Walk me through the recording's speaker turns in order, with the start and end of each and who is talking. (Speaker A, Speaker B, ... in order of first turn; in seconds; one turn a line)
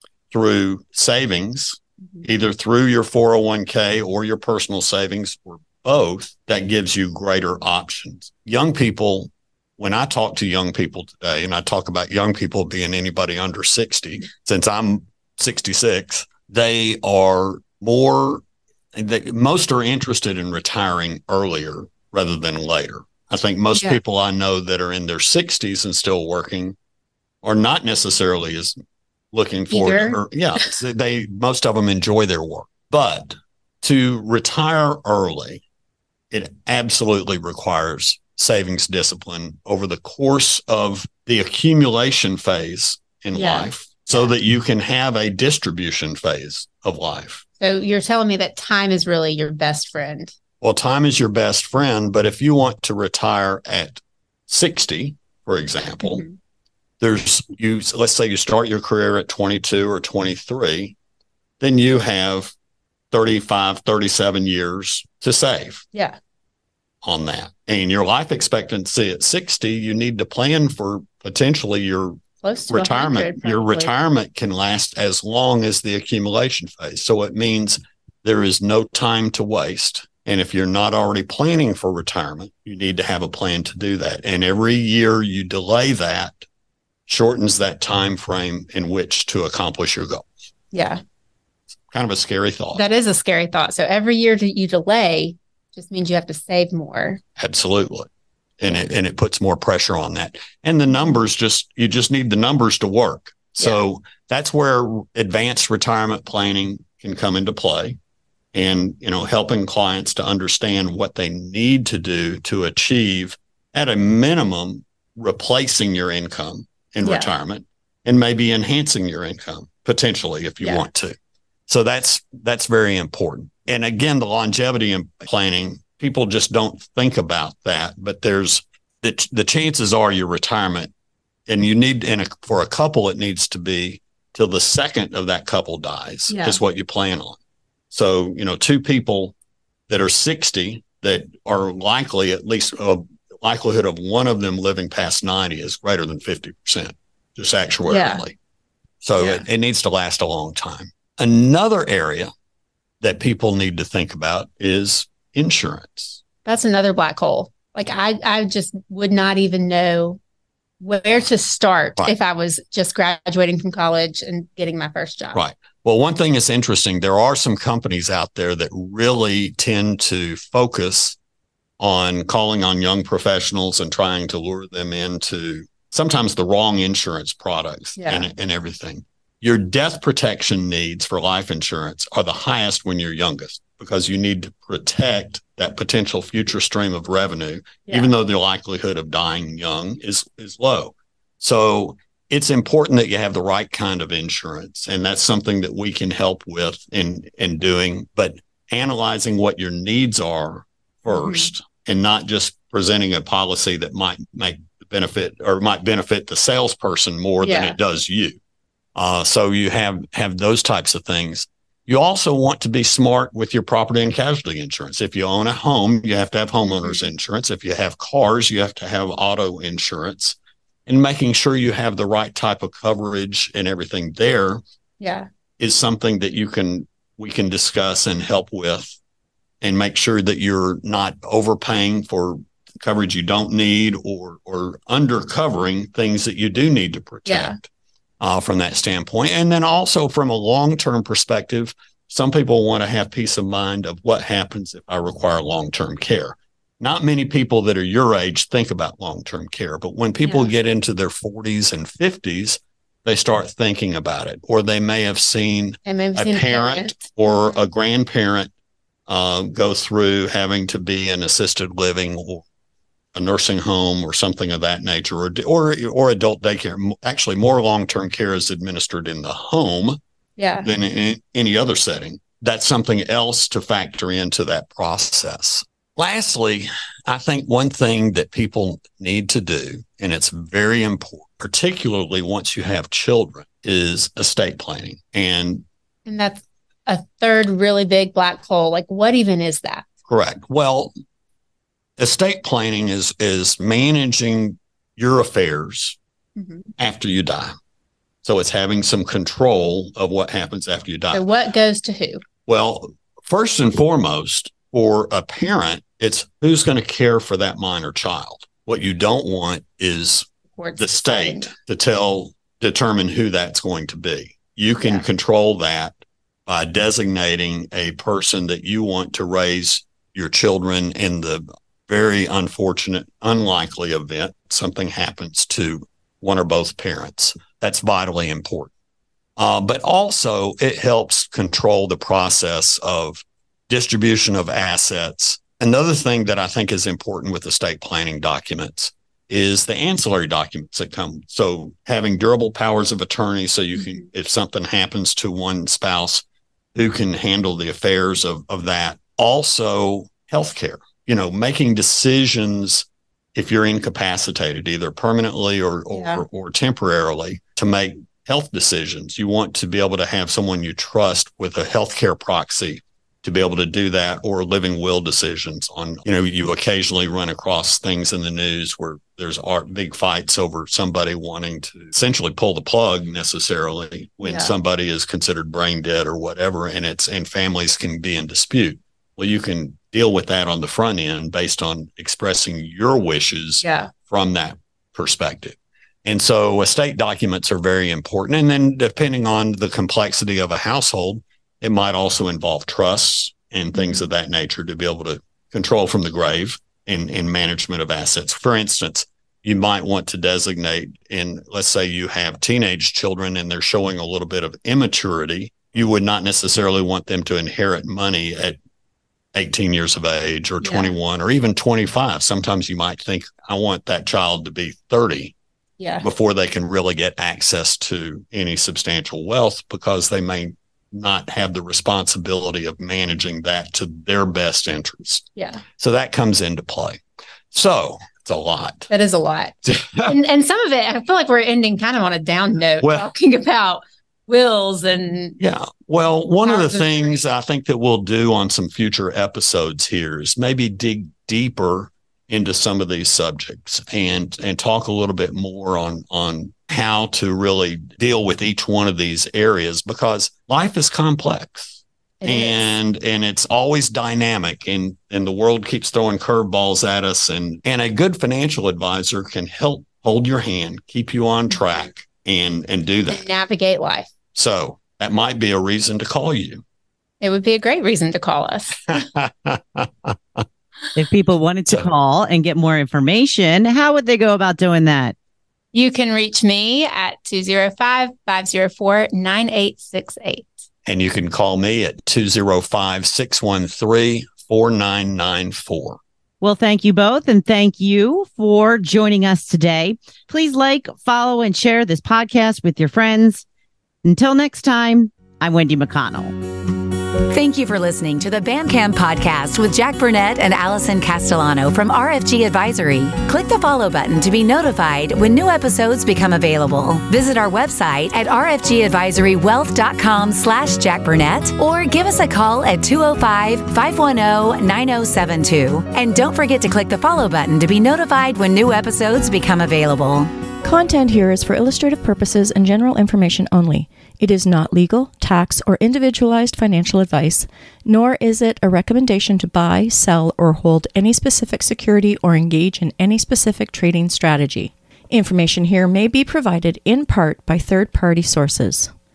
Speaker A: 0.3-18.4
Speaker A: 18.9-26.8
Speaker A: 27.4-28.8
Speaker A: 29.3-35.6
Speaker B: 29.7-30.7
Speaker A: 36.3-47.4
Speaker B: 43.4-44.3
Speaker B: 47.6-50.3
Speaker A: 50.6-56.2
Speaker B: 56.0-56.4
Speaker A: 57.0-61.0
Speaker A: 61.6-62.5
Speaker A: 63.1-65.8
Speaker A: 67.0-86.4
Speaker B: 72.4-73.9
Speaker A: 87.1-90.3
Speaker B: 90.7-91.0
Speaker A: 91.9-92.8
Speaker B: 92.8-97.2
Speaker A: 97.4-98.1
Speaker A: 98.6-108.0
Speaker A: 108.5-121.2
Speaker B: 117.0-117.3
Speaker A: 121.7-130.9
Speaker A: 131.5-137.4
Speaker B: 136.3-136.6
Speaker A: 137.9-139.3
Speaker A: 139.9-148.3
Speaker B: 147.9-148.2
Speaker A: 149.0-152.3
Speaker B: 149.2-149.4
Speaker A: 153.0-156.2
Speaker B: 156.4-160.2
Speaker B: 160.8-165.4
Speaker A: 165.3-171.2
Speaker A: 171.8-208.4
Speaker B: 178.0-178.3
Speaker B: 201.1-201.5
Speaker B: 207.4-207.8
Speaker A: 208.9-224.6
Speaker B: 225.0-225.3
Speaker A: 225.6-229.0
Speaker A: 229.6-237.7
Speaker B: 237.3-237.5
Speaker A: 238.2-258.5
Speaker B: 250.2-250.5
Speaker B: 255.8-257.6
Speaker A: 259.1-262.5
Speaker A: 263.1-270.0
Speaker B: 270.4-270.7
Speaker A: 270.6-285.6
Speaker B: 286.1-289.9
Speaker A: 290.1-290.9
Speaker A: 292.0-296.0
Speaker B: 296.4-296.7
Speaker A: 296.8-297.6
Speaker A: 298.2-301.2
Speaker B: 301.1-302.2
Speaker A: 302.5-310.3
Speaker B: 310.6-311.5
Speaker A: 310.8-328.7
Speaker A: 329.4-346.2
Speaker A: 346.8-408.6
Speaker B: 355.9-356.2
Speaker B: 374.2-374.5
Speaker B: 383.6-383.9
Speaker A: 409.3-415.3
Speaker B: 410.6-410.9
Speaker B: 415.8-416.1
Speaker A: 416.0-428.9
Speaker B: 425.4-425.6
Speaker B: 428.9-429.5
Speaker A: 429.6-430.2
Speaker B: 430.1-435.4
Speaker A: 432.8-433.1
Speaker A: 435.4-463.2
Speaker B: 436.4-437.1
Speaker B: 452.2-452.7
Speaker B: 463.1-464.1
Speaker A: 464.3-466.6
Speaker B: 467.2-468.9
Speaker A: 468.9-470.4
Speaker C: 471.0-475.1
Speaker B: 475.7-480.6
Speaker A: 480.9-486.0
Speaker C: 486.4-493.4
Speaker C: 494.1-496.4
Speaker D: 497.3-520.3
Speaker E: 520.6-538.9